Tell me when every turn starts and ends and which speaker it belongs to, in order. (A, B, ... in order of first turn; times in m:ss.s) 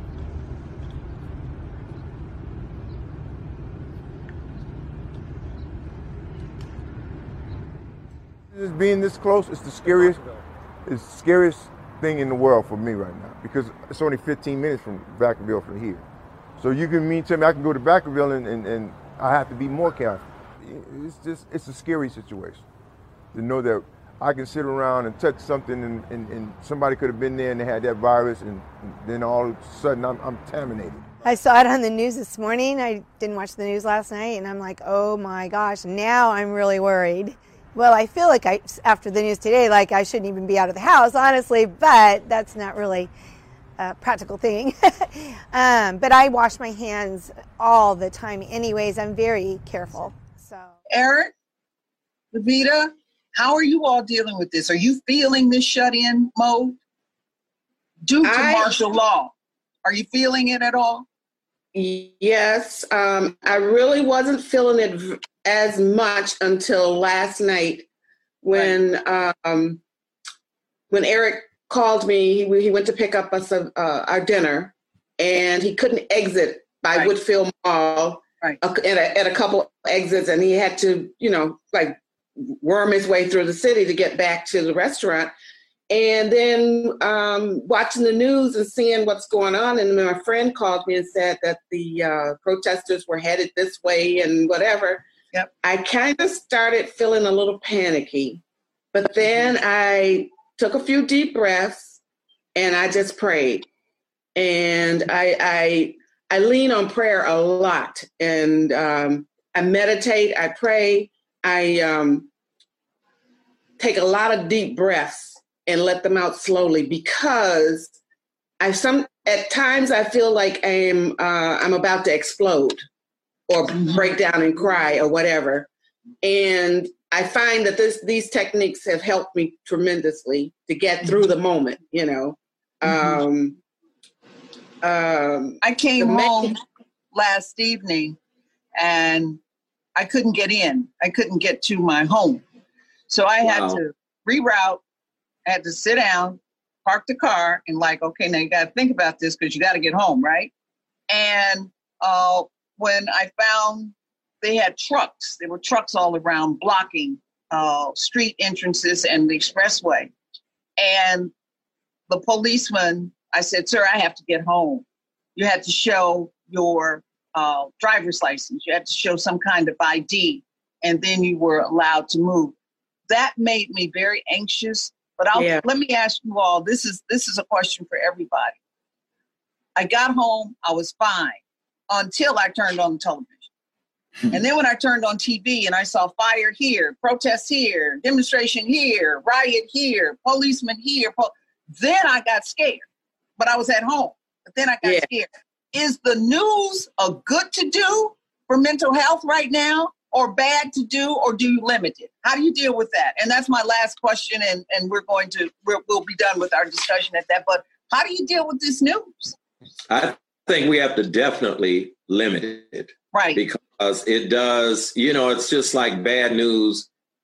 0:08.5-0:10.2 A
0:10.8-0:16.0 A
0:16.6-0:22.6 A
0:23.3-0:31.2 A
0:31.2-0:43.1 B
0:43.8-0:50.7 B
0:50.9-0:51.3 C
0:52.3-0:56.8 C
0:58.0-0:59.3 C
0:58.2-0:58.8 D
0:59.8-1:01.0 C
1:01.7-1:07.9 D
1:08.4-1:09.8 D
1:10.9-1:25.3 D
1:25.9-1:35.0 D
1:35.6-1:38.4 D
1:38.9-1:42.0 D
1:42.5-1:43.6 D
1:44.4-1:52.3 D
1:53.8-1:57.9 D
1:58.6-2:02.8 D
2:03.5-2:05.7 D
2:06.2-2:13.6 D
2:14.8-2:16.5 D
2:15.6-2:16.6 C
2:17.1-2:18.2 C
2:18.7-2:19.4 C
2:20.0-2:22.4 C
2:23.1-2:24.8 C
2:23.4-2:23.8 E
2:25.4-2:30.5 C
2:31.1-2:40.1 C
2:40.8-2:41.3 C
2:42.1-2:44.8 C
2:45.4-2:52.5 C
2:53.1-2:58.6 C
2:55.3-2:55.6 D
2:59.8-3:03.5 C
3:04.3-3:12.8 C
3:13.4-3:29.4 C
3:29.9-3:36.9 E
3:33.1-3:33.4 C